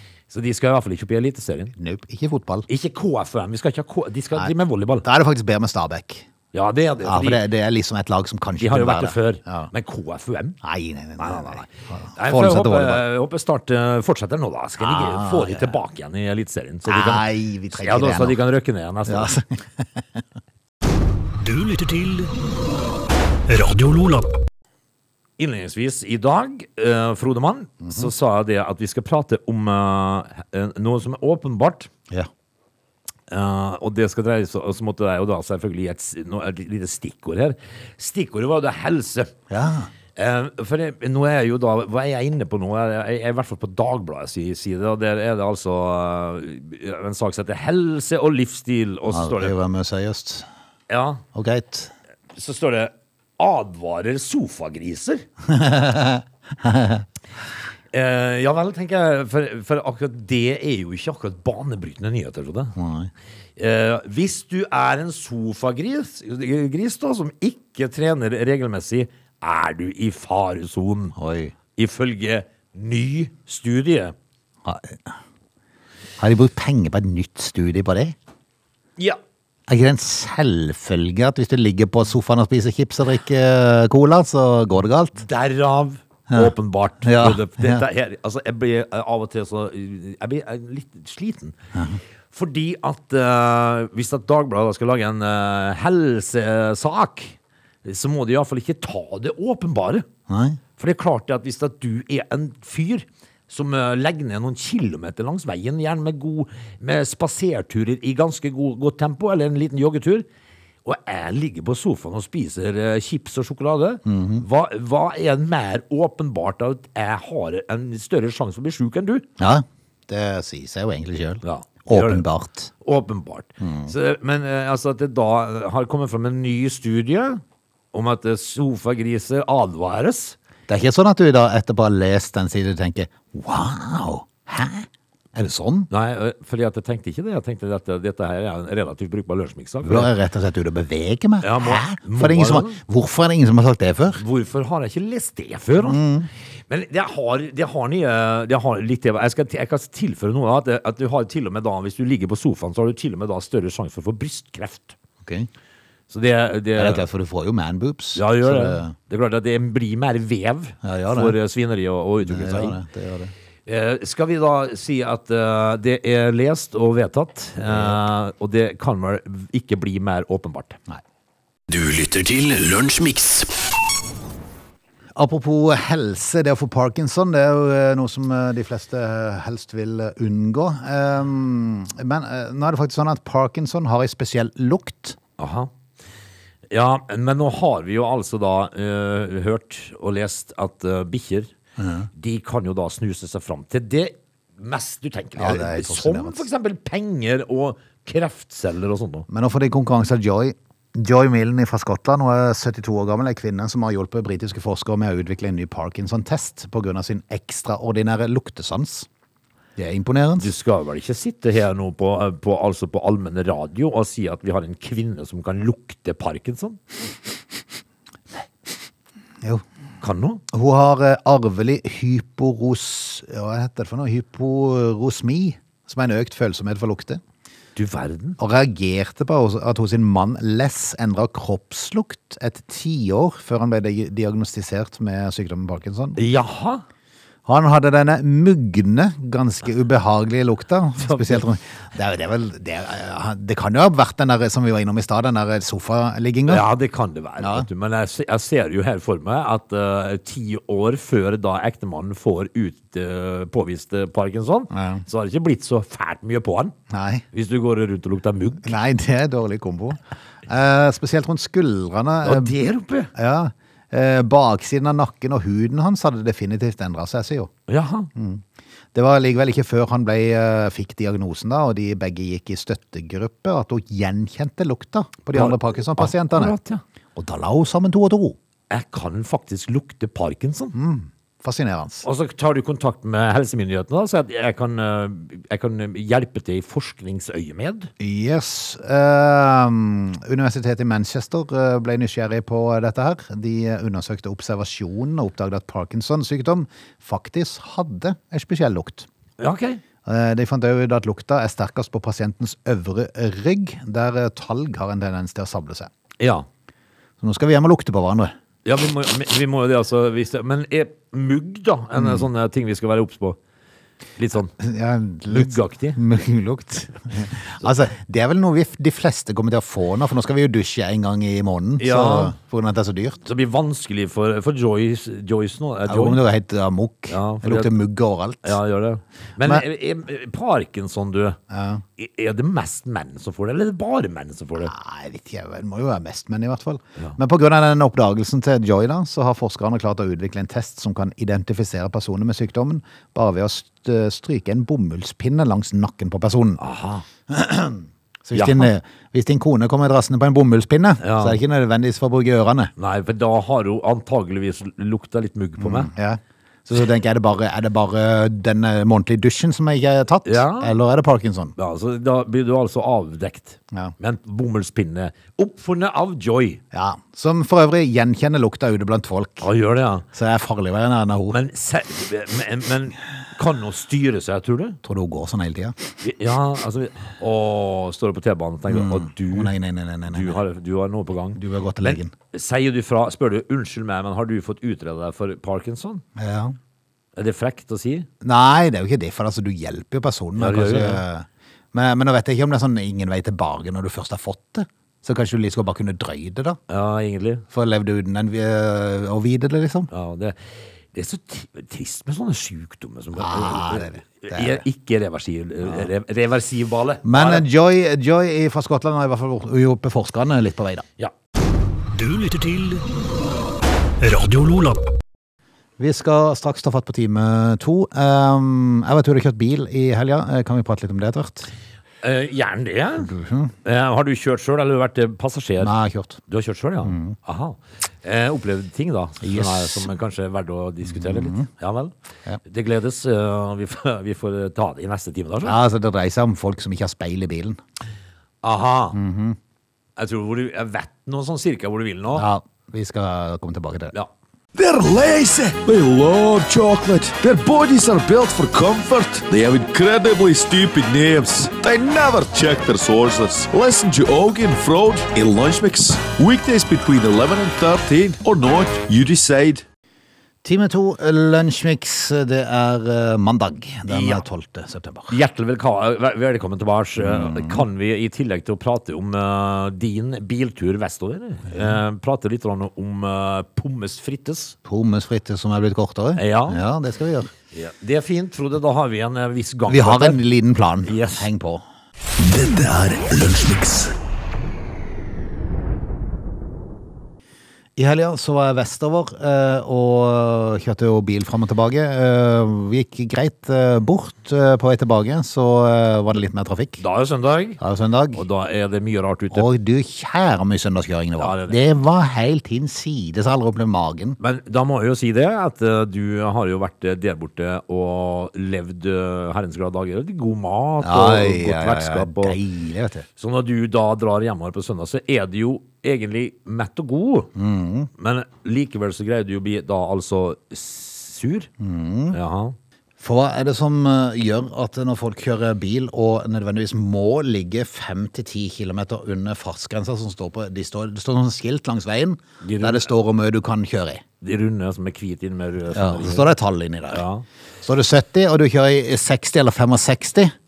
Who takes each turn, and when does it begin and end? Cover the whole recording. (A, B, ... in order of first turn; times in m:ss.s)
0:00.3-0:01.7 A
0:01.8-0:02.7 B
0:02.7-0:05.0 A
0:05.0-0:06.2 B
0:06.5-0:07.4 A
0:07.0-0:09.7 B
0:08.6-0:10.6 A
0:10.6-0:13.0 B
0:11.2-0:19.4 A
0:14.8-0:15.7 B
0:16.9-0:18.4 B
0:19.0-0:20.2 B
0:21.4-0:22.3 C
0:23.5-0:24.3 C
0:25.4-0:31.9 A
0:27.8-0:28.1 B
0:33.3-0:39.3 A
0:39.5-0:39.9 B
0:40.2-0:49.5 A
0:49.1-0:50.5 B
0:50.9-0:51.2 A
0:51.4-0:51.9 B
0:52.3-0:55.2 A
0:55.4-0:57.0 B
0:57.9-1:02.7 A
1:02.8-1:03.1 B
1:03.6-1:11.1 A
1:11.2-1:11.5 B
1:11.8-1:14.1 A
1:14.6-1:15.1 B
1:16.2-1:18.1 B
1:19.7-1:25.2 B
1:25.2-1:31.5 A
1:26.3-1:27.8 B
1:31.8-1:32.0 B
1:32.3-1:40.0 A
1:40.3-1:40.6 B
1:40.8-1:50.2 A
1:50.8-1:59.3 A
1:54.0-1:54.4 B
1:59.4-2:02.7 B
2:01.4-2:02.2 A
2:02.8-2:07.4 A
2:03.6-2:03.9 B
2:07.9-2:10.4 A
2:10.7-2:15.9 B
2:15.9-2:20.1 A
2:19.8-2:24.2 B
2:21.4-2:22.8 A
2:24.2-2:26.0 A
2:25.8-2:26.3 B
2:26.7-2:35.0 A
2:35.2-2:35.5 B
2:36.1-2:37.0 A
2:36.8-2:39.0 B
2:38.2-2:42.8 A
2:40.8-2:41.4 B
2:42.2-2:43.3 B
2:43.6-2:50.8 A
2:47.7-2:47.9 B
2:51.7-2:53.5 D
2:55.2-3:05.2 B
3:05.4-3:05.7 A
3:06.7-3:11.5 A
3:11.8-3:12.1 B
3:12.2-3:19.3 A
3:15.4-3:16.4 B
3:19.3-3:29.1 B
3:29.8-3:30.5 B
3:30.4-3:36.8 A
3:40.0-3:40.4 A
3:40.5-3:47.2 B
3:47.8-3:48.4 A
3:48.4-3:56.2 B
3:56.2-3:56.8 A
3:57.5-4:06.6 B
4:01.0-4:01.4 A
4:06.5-4:16.8 A
4:07.4-4:07.7 B
4:14.7-4:15.0 B
4:16.9-4:17.2 B
4:17.3-4:18.7 A
4:18.6-4:22.5 B
4:22.2-4:23.1 A
4:23.1-4:27.5 B
4:27.7-4:28.1 A
4:28.1-4:36.5 B
4:35.3-4:36.8 A
4:37.2-4:38.4 B
4:38.7-4:40.7 A
4:40.7-4:42.0 B
4:42.0-4:47.9 A
4:48.0-4:59.1 B
4:59.4-4:59.8 A
5:00.0-5:05.9 B
5:06.2-5:06.5 A
5:07.2-5:08.3 B
5:08.6-5:13.4 A
5:12.0-5:12.2 B
5:14.2-5:14.5 A
5:14.6-5:23.2 B
5:15.3-5:16.0 A
5:21.8-5:22.4 A
5:23.2-5:26.2 A
5:25.9-5:28.6 B
5:27.1-5:27.8 A
5:28.4-5:31.4 A
5:31.5-5:31.8 B
5:32.0-5:34.7 A
5:34.6-5:46.6 B
5:46.6-5:47.0 A
5:47.3-5:52.7 B
5:48.3-5:48.7 A
5:51.0-5:51.4 A
5:52.8-5:55.9 A
5:55.6-6:01.5 B
6:00.2-6:00.8 A
6:01.6-6:06.6 A
6:06.7-6:09.5 B
6:09.4-6:10.0 A
6:10.1-6:11.4 B
6:11.3-6:14.8 A
6:14.8-6:15.8 B
6:16.0-6:19.5 A
6:18.7-6:20.4 B
6:20.1-6:26.0 A
6:21.4-6:22.1 B
6:26.2-6:26.6 B
6:27.1-6:28.1 A
6:28.2-6:36.6 B
6:30.4-6:31.0 A
6:36.7-6:37.4 A
6:37.5-6:39.9 B
6:39.9-6:40.4 A
6:40.9-6:47.5 A
6:43.2-6:44.6 B
6:47.0-6:50.9 B
6:51.9-6:52.8 C
6:54.0-6:54.9 C
6:55.8-7:01.5 B
7:02.0-7:05.7 A
7:03.0-7:03.5 B
7:05.6-7:06.2 B
7:06.3-7:11.9 A
7:06.8-7:07.2 B
7:09.2-7:09.9 B
7:10.9-7:11.5 B
7:12.4-7:15.6 A
7:15.4-7:17.6 B
7:18.4-7:19.0 A
7:18.9-7:19.4 B
7:20.0-7:22.2 A
7:22.1-7:23.9 B
7:24.5-7:39.6 D
7:40.4-7:45.2 B
7:43.9-7:44.2 A
7:45.1-7:54.6 A
7:47.0-7:47.6 B
7:54.6-7:57.3 B
7:56.2-7:56.6 A
7:57.5-8:00.2 A
7:59.7-8:01.6 B
8:00.8-8:01.3 A
8:02.2-8:03.9 D
8:07.8-8:16.8 B
8:16.8-8:17.6 A
8:17.6-8:18.2 B
8:18.1-8:19.5 A
8:19.3-8:24.2 B
8:21.2-8:21.6 A
8:24.2-8:32.4 A
8:30.8-8:33.1 B
8:33.2-8:37.3 A
8:37.4-8:37.9 B
8:38.0-8:41.5 A
8:41.6-8:42.2 B
8:42.1-8:42.6 A
8:43.0-8:54.0 B
8:52.4-8:52.9 A
8:54.2-8:56.3 A
8:55.7-8:57.0 B
8:56.9-8:57.2 A
8:57.6-9:00.3 B